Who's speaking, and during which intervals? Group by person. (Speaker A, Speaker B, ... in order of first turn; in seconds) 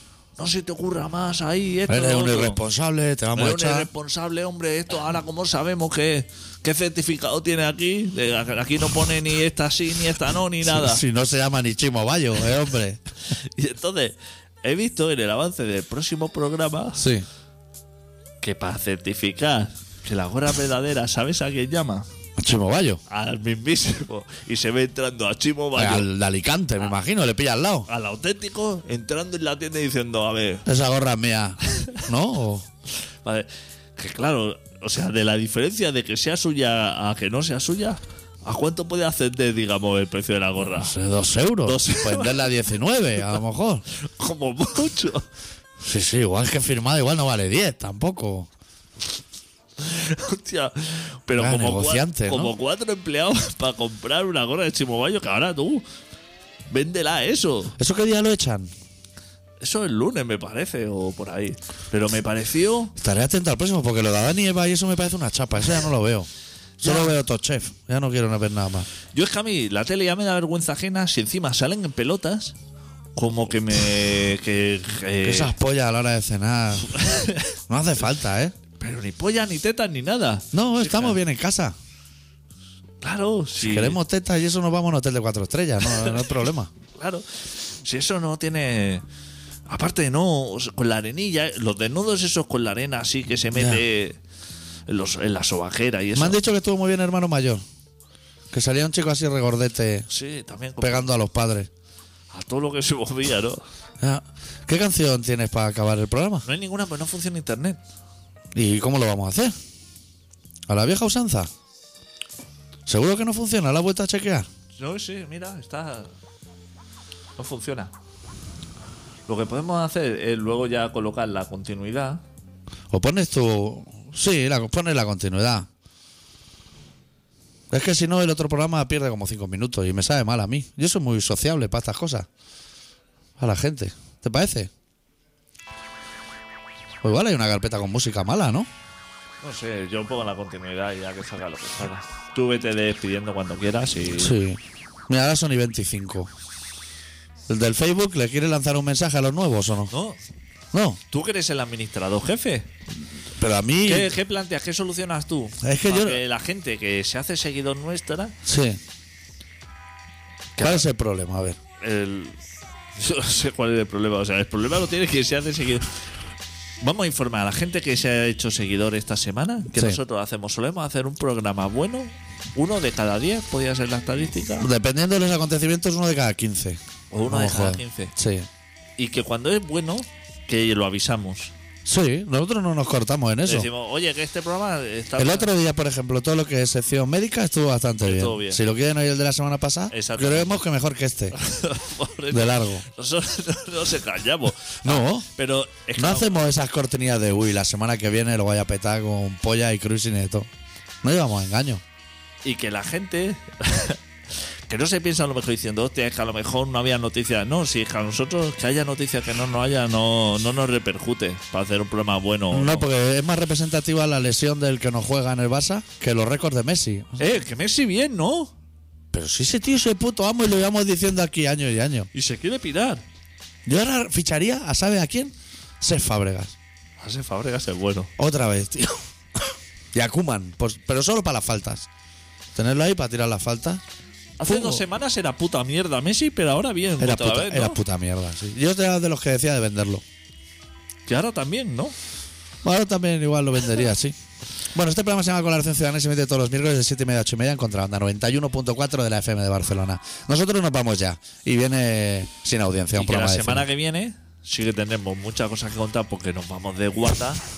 Speaker A: 0.4-2.6, 3.3-11.0, 13.4-17.0, 18.4-22.1, 23.1-26.1, 27.9-30.6, 33.2-40.9, 41.6-42.5, 44.0-45.3, 49.8-55.9, 56.7-57.7, 59.6-62.9, 66.8-67.1, 69.1-72.5, 73.2-75.5, 76.9-77.5, 78.8-81.2, 83.0-84.0, 86.9-87.2, 87.8-89.0, 89.7-94.2, 94.9-96.4, 100.1-101.1, 102.3-103.6, 106.5-107.8, 114.8-116.1, 117.4-117.9, 119.3-122.2, 139.4-144.3, 149.9-150.2, 151.1-152.7, 153.8-158.3, 160.6-160.8, 161.8-162.4, 162.9-165.8, 166.8-174.7, 177.1-178.1, 179.0-181.5, 183.4-185.5, 188.0-188.6, 189.9-190.6, 191.3-196.3, 202.4-204.0, 204.7-212.8, 217.2-218.5, 222.1-223.0, 227.0-228.1, 234.4-237.8, 241.1-241.9, 252.9-257.4
Speaker B: 1.9-3.9, 10.6-13.0, 17.0-17.2, 22.4-23.0, 25.8-27.9, 30.6-32.7, 40.7-43.8, 45.8-48.5, 51.4-52.5, 57.8-58.7, 63.0-66.3, 66.8-68.9, 75.2-77.1, 77.7-78.5, 80.5-81.7, 83.6-86.7, 93.5-93.8, 96.2-97.6, 98.5-100.0, 100.8-101.7, 104.0-106.5, 108.5-109.5, 110.7-111.5, 112.8-114.5, 122.9-125.7, 127.7-132.3, 133.4-134.7, 137.0-138.7, 144.2-146.3, 147.5-149.9, 150.7-151.0, 153.4-154.1, 155.6-156.2, 158.4-158.8, 160.6-161.6, 169.7-170.0, 174.6-178.5, 181.8-183.7, 185.2-191.3, 192.3-192.8, 194.8-195.3, 195.9-200.5, 201.0-201.8, 212.5-217.2, 219.1-222.1, 223.7-226.5, 228.2-231.9, 232.5-233.8, 234.4-234.8, 237.0-240.0, 242.6-244.2, 244.7-253.7